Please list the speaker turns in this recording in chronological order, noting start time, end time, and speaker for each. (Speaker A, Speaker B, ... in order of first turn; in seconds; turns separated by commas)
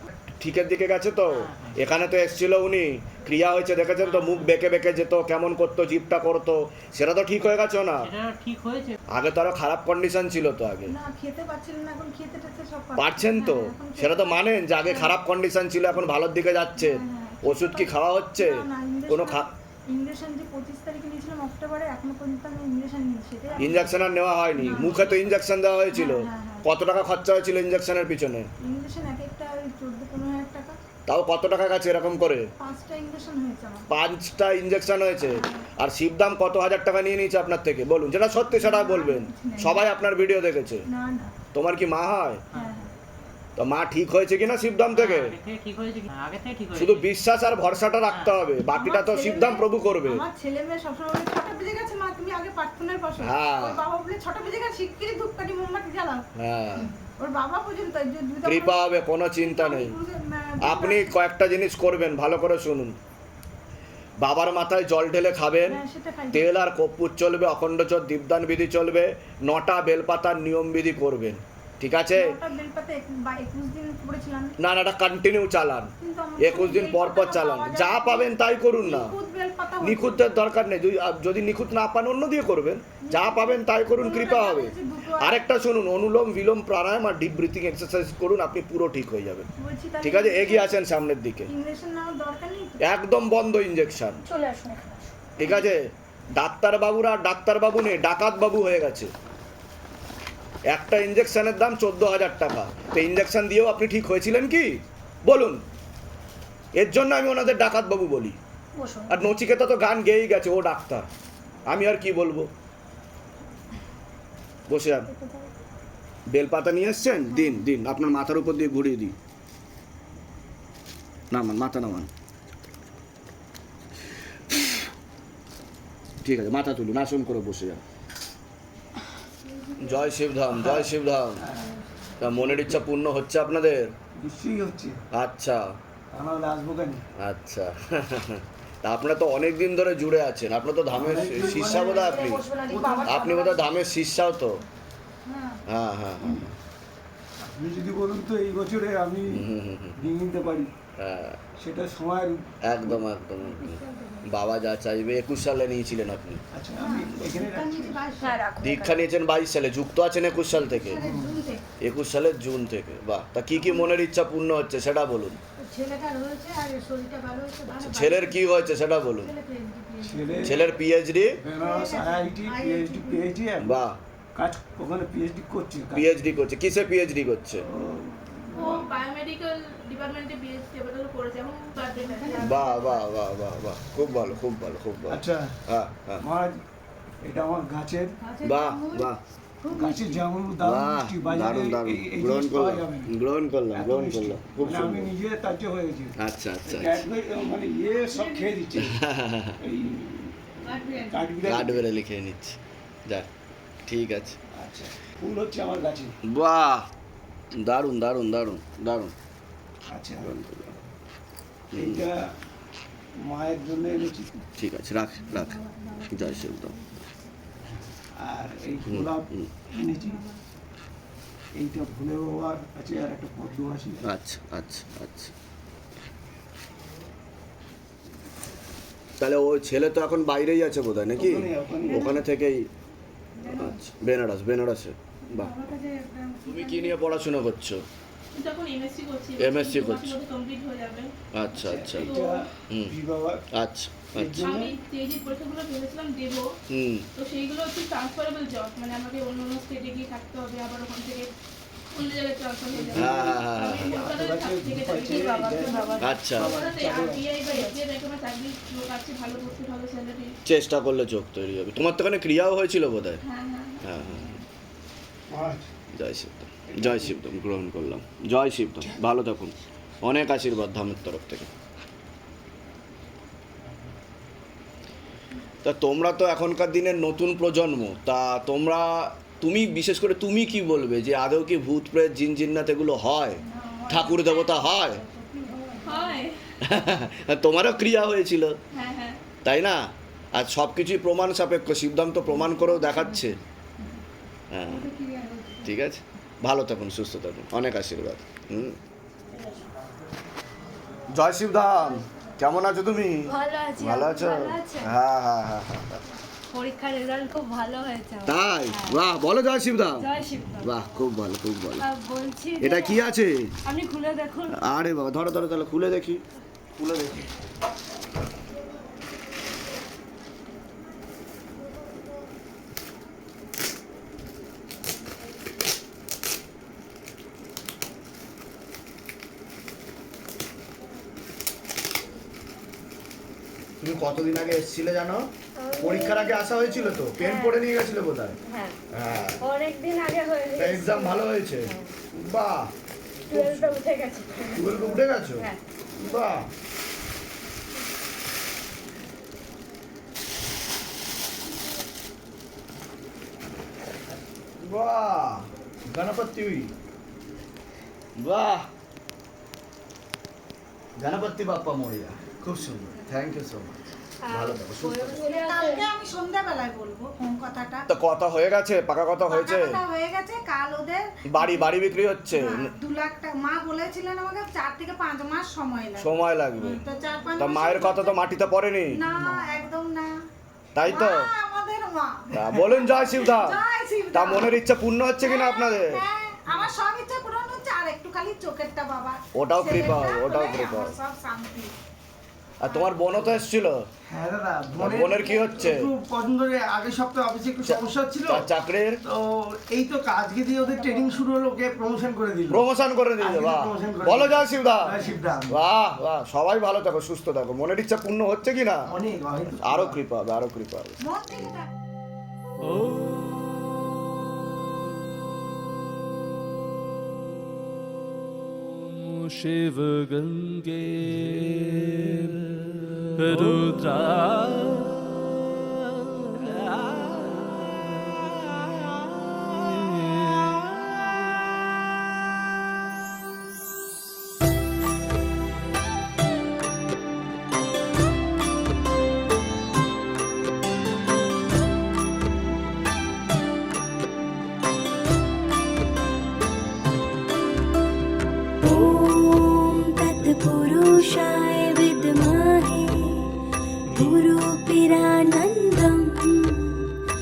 Speaker A: 0.4-8.1, Speaker B: 8.1-8.9, Speaker A: 9.1-10.9, Speaker C: 10.9-15.2, Speaker A: 13.0-19.5, Speaker C: 16.8-26.6, Speaker A: 23.6-28.5, Speaker C: 28.6-30.7, Speaker A: 31.1-32.5, Speaker C: 32.6-33.9, Speaker A: 33.9-40.8, Speaker C: 35.3-35.6, Speaker C: 38.5-39.8, Speaker C: 40.9-41.3, Speaker A: 41.5-42.4, Speaker C: 42.5-42.9, Speaker A: 43.5-45.4, Speaker B: 44.9-46.9, Speaker A: 46.7-50.2, Speaker C: 48.7-56.2, Speaker A: 53.2-53.8, Speaker A: 56.4-56.9, Speaker C: 57.0-58.8, Speaker A: 58.4-60.0, Speaker C: 59.4-61.1, Speaker A: 60.6-63.0, Speaker A: 64.2-65.8, Speaker C: 65.7-66.5, Speaker A: 66.3-72.4, Speaker C: 72.1-74.5, Speaker A: 74.6-79.1, Speaker C: 76.0-80.4, Speaker A: 79.8-89.5, Speaker C: 83.0-85.4, Speaker C: 89.6-90.8, Speaker A: 90.0-91.5, Speaker C: 91.5-92.8, Speaker A: 92.8-94.2, Speaker D: 94.3-95.1, Speaker A: 95.4-99.1, Speaker A: 100.7-105.6, Speaker A: 106.8-108.4, Speaker C: 108.8-109.1, Speaker A: 109.1-111.0, Speaker A: 111.7-112.5, Speaker A: 114.7-115.1, Speaker C: 115.1-115.5, Speaker A: 116.3-119.1, Speaker A: 121.3-122.1, Speaker A: 126.2-127.8, Speaker C: 129.5-130.1, Speaker A: 129.8-131.4, Speaker E: 130.5-131.7, Speaker A: 132.2-133.9, Speaker E: 132.2-132.8, Speaker E: 134.2-135.0, Speaker A: 135.1-135.7, Speaker E: 136.1-137.0, Speaker A: 137.2-142.4, Speaker E: 140.9-143.3, Speaker D: 141.7-142.3, Speaker C: 143.0-143.4, Speaker A: 143.0-144.6, Speaker C: 145.3-145.6, Speaker A: 145.7-146.5, Speaker E: 147.4-149.4, Speaker A: 149.3-150.0, Speaker E: 150.0-150.7, Speaker A: 151.0-151.4, Speaker E: 151.6-153.1, Speaker A: 152.6-156.4, Speaker C: 153.4-154.3, Speaker E: 156.5-158.0, Speaker C: 156.8-158.4, Speaker D: 158.2-159.0, Speaker A: 158.6-161.0, Speaker C: 160.6-161.6, Speaker E: 161.0-161.4, Speaker A: 161.8-165.4, Speaker C: 163.6-163.9, Speaker C: 165.6-168.4, Speaker A: 167.8-169.3, Speaker C: 169.2-170.6, Speaker E: 170.0-170.7, Speaker A: 170.4-171.4, Speaker E: 171.4-173.8, Speaker C: 171.6-173.2, Speaker A: 173.6-174.0, Speaker E: 174.3-176.1, Speaker A: 175.9-177.6, Speaker E: 177.6-178.9, Speaker F: 178.5-182.7, Speaker C: 181.8-183.0, Speaker A: 182.4-186.2, Speaker E: 185.1-185.6, Speaker E: 186.2-186.6, Speaker E: 187.2-188.2, Speaker C: 188.2-189.1, Speaker A: 188.4-189.2, Speaker C: 189.6-190.2, Speaker E: 189.7-193.1, Speaker A: 190.6-195.1, Speaker E: 193.7-199.0, Speaker A: 196.2-197.0, Speaker C: 197.9-198.5, Speaker A: 198.8-199.6, Speaker E: 199.6-201.8, Speaker A: 201.4-203.3, Speaker A: 203.9-204.4, Speaker E: 204.5-206.2, Speaker A: 206.2-206.9, Speaker A: 207.5-209.1, Speaker E: 209.9-210.3, Speaker A: 210.2-210.8, Speaker A: 211.7-212.0, Speaker E: 211.7-212.3, Speaker E: 213.2-214.4, Speaker A: 214.6-216.8, Speaker C: 215.3-216.4, Speaker E: 218.1-220.2, Speaker A: 218.9-219.5, Speaker E: 221.5-224.1, Speaker A: 224.0-225.3, Speaker A: 229.2-232.7, Speaker E: 231.1-232.2, Speaker C: 233.4-233.8, Speaker A: 233.5-235.6, Speaker C: 235.3-237.3, Speaker A: 236.4-237.8, Speaker F: 238.3-241.1, Speaker A: 239.4-240.2, Speaker A: 241.3-242.1, Speaker E: 241.5-243.4, Speaker F: 242.0-242.4, Speaker A: 242.7-242.9, Speaker A: 243.5-244.5, Speaker E: 244.1-244.8, Speaker F: 244.4-246.5, Speaker A: 246.7-247.0, Speaker F: 247.1-251.3, Speaker F: 251.9-260.3, Speaker E: 252.7-257.2, Speaker A: 252.9-254.0, Speaker D: 255.2-256.1, Speaker A: 256.0-256.5, Speaker A: 260.4-263.2, Speaker F: 263.2-263.9, Speaker A: 263.8-264.4, Speaker E: 265.3-265.7, Speaker A: 265.9-271.5, Speaker E: 266.7-267.2, Speaker A: 275.6-285.0, Speaker C: 283.4-286.2, Speaker F: 285.8-286.3, Speaker A: 286.6-288.6, Speaker F: 288.7-289.2, Speaker A: 289.4-293.4, Speaker C: 292.4-293.3, Speaker A: 294.5-294.9, Speaker C: 294.6-295.7, Speaker A: 295.6-298.8, Speaker A: 301.1-306.0, Speaker D: 303.3-304.9, Speaker D: 306.5-309.0, Speaker A: 308.2-311.9, Speaker D: 309.9-310.7, Speaker D: 311.8-313.1, Speaker A: 312.6-313.5, Speaker D: 313.6-314.6, Speaker A: 314.5-316.2, Speaker A: 316.8-317.2, Speaker A: 333.8-338.4, Speaker D: 335.6-337.6, Speaker D: 338.4-338.8, Speaker A: 338.9-339.4, Speaker D: 339.4-341.9, Speaker A: 340.5-342.7, Speaker D: 343.3-345.6, Speaker A: 343.3-343.8, Speaker A: 344.5-346.5, Speaker A: 354.6-356.7, Speaker A: 358.2-358.7, Speaker A: 361.0-365.2, Speaker D: 364.2-365.9, Speaker C: 365.2-367.9, Speaker A: 367.9-369.8, Speaker C: 369.3-371.7, Speaker A: 371.3-372.7, Speaker C: 372.3-378.2, Speaker A: 376.0-376.8, Speaker A: 377.4-379.0, Speaker C: 378.9-380.1, Speaker E: 379.1-379.6, Speaker A: 380.7-381.3, Speaker C: 380.8-384.6, Speaker A: 382.3-383.6, Speaker A: 384.1-386.0, Speaker C: 385.2-391.7, Speaker A: 389.3-390.9, Speaker A: 392.6-393.8, Speaker C: 392.6-392.9, Speaker E: 394.1-398.5, Speaker A: 394.8-395.9, Speaker A: 397.6-399.0, Speaker E: 399.0-402.6, Speaker A: 402.5-405.0, Speaker E: 403.2-405.6, Speaker A: 405.5-408.9, Speaker E: 408.9-410.0, Speaker A: 409.6-411.0, Speaker C: 411.0-411.7, Speaker G: 448.6-456.9